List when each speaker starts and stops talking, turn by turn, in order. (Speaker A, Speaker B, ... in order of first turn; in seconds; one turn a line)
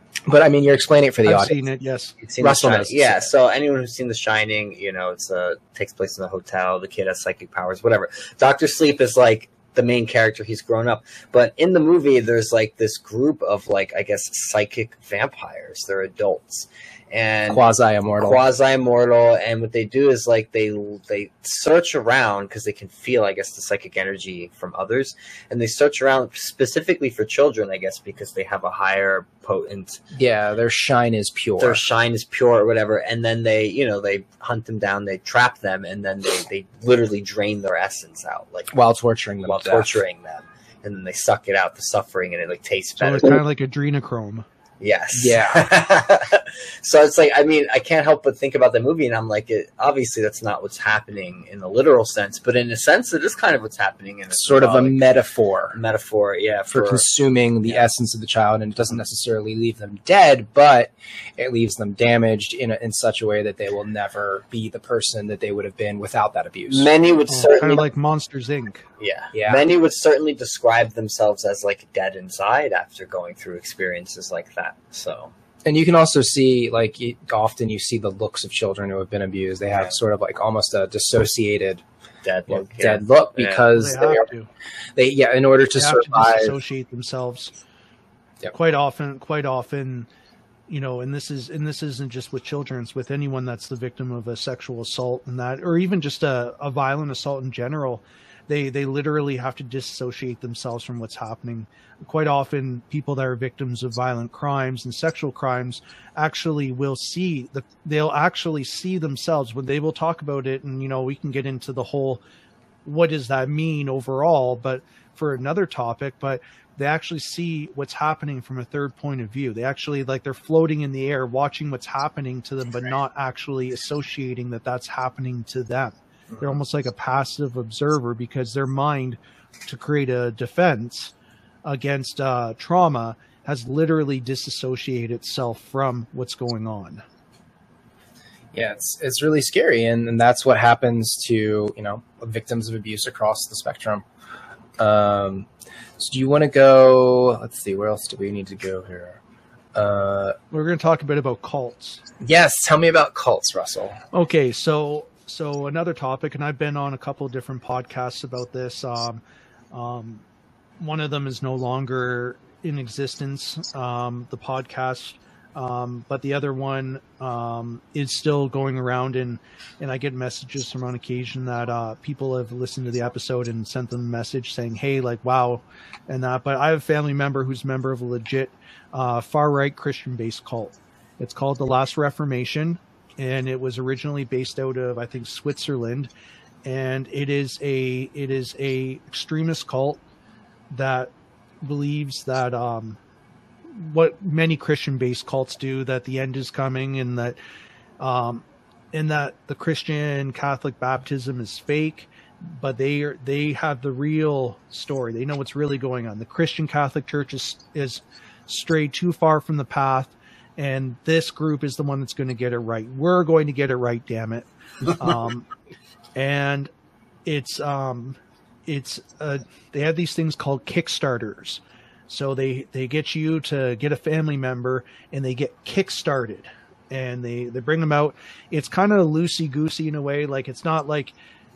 Speaker A: 0.3-1.6
Speaker B: 1.2-2.1
Speaker C: 2.2-17.6
Speaker A: 2.4-3.3
Speaker A: 17.5-18.4
Speaker C: 18.2-30.0
Speaker A: 30.1-31.8
Speaker C: 31.6-38.7
Speaker A: 38.7-40.0
Speaker C: 39.5-43.4
Speaker B: 43.0-44.5
Speaker C: 44.8-55.0
Speaker A: 45.1-45.7
Speaker A: 54.3-55.8
Speaker C: 55.7-57.1
Speaker A: 56.7-66.9
Speaker C: 66.7-67.8
Speaker B: 67.3-68.8
Speaker C: 69.0-75.3
Speaker A: 69.3-69.7
Speaker A: 75.7-81.8
Speaker C: 82.2-83.7
Speaker A: 82.5-84.3
Speaker B: 83.7-84.5
Speaker A: 85.0-86.5
Speaker B: 85.8-87.5
Speaker B: 88.5-90.1
Speaker B: 90.7-112.2
Speaker B: 112.8-131.1
Speaker B: 131.7-137.0
Speaker A: 138.5-144.0
Speaker A: 144.8-145.5
Speaker A: 146.0-149.2
Speaker A: 149.8-150.4
Speaker B: 150.5-152.0
Speaker A: 152.2-154.0
Speaker B: 154.1-160.2
Speaker B: 160.8-186.1
Speaker B: 186.7-190.0
Speaker B: 190.7-193.0
Speaker B: 193.7-197.4
Speaker B: 198.0-215.5
Speaker B: 216.2-216.7
Speaker B: 217.2-231.1